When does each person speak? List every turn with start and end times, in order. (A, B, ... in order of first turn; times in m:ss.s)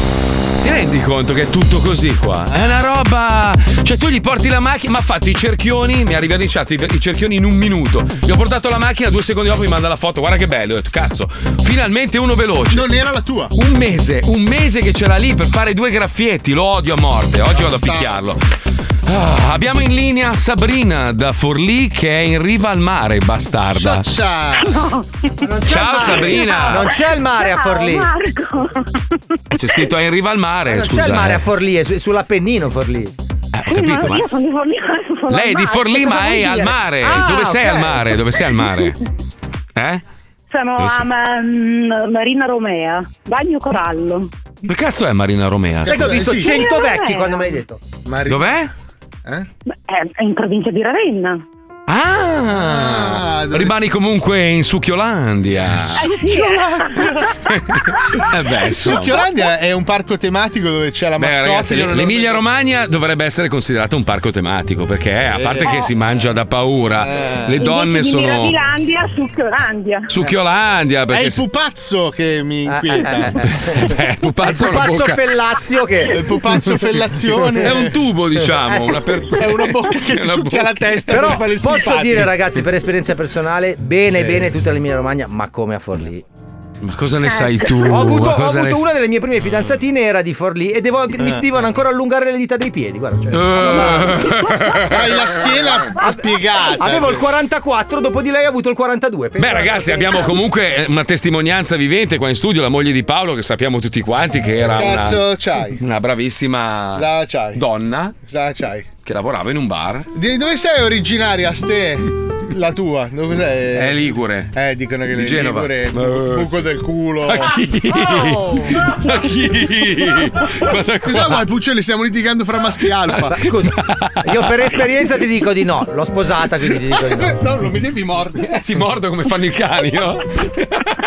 0:00.6-0:12.8 A
0:12.7-0:13.5 B
0:13.6-0:18.4 A
0:17.5-0:18.2 B
0:19.1-0:24.0 A
0:23.7-0:24.8 B
0:24.7-0:25.1 C
0:25.4-0:26.5 B
0:25.6-0:26.9 A
0:26.3-0:29.0 C
0:26.7-0:28.1 D
0:29.5-0:31.5 A
0:30.7-0:33.1 D
0:33.5-0:34.3 A
0:33.7-0:36.8 C
0:35.3-0:39.0 A
0:37.0-0:38.1 D
0:39.8-0:40.0 A
0:40.5-0:44.3 C
0:40.8-0:41.1 A
0:44.7-0:46.4 A
0:45.9-0:46.6 B
0:45.9-0:47.8 D
0:46.4-0:47.4 C
0:48.0-0:48.7 B
0:48.3-0:48.7 A
0:49.9-0:51.4 C
0:51.9-0:56.0 A
0:52.5-0:53.8 B
0:55.9-0:57.3 B
0:56.0-0:57.2 C
0:57.5-0:59.2 A
0:58.6-1:02.4 B
1:01.2-1:08.6 A
1:05.3-1:05.9 B
1:05.6-1:05.9 C
1:07.0-1:07.7 B
1:07.6-1:10.1 C
1:10.1-1:11.4 A
1:11.1-1:13.5 B
1:12.7-1:13.8 D
1:13.5-1:15.4 A
1:14.4-1:16.3 D
1:16.1-1:18.0 B
1:17.6-1:21.4 A
1:18.6-1:19.2 D
1:19.4-1:22.4 B
1:21.1-1:26.2 D
1:24.1-1:24.6 B
1:26.8-1:28.9 A
1:27.8-1:34.3 D
1:33.3-1:35.7 A
1:34.8-1:37.3 B
1:36.0-1:40.3 D
1:39.4-1:45.2 A
1:44.7-1:45.8 B
1:45.8-1:48.2 A
1:47.0-1:47.6 B
1:48.2-1:48.9 B
1:49.0-1:50.1 A
1:50.1-1:57.6 B
1:53.7-1:54.5 A
1:55.1-1:56.7 A
1:57.3-2:01.4 A
1:57.9-1:58.9 D
2:01.0-2:03.4 B
2:03.1-2:04.5 A
2:03.3-2:07.4 D
2:07.0-2:08.6 B
2:08.4-2:10.9 A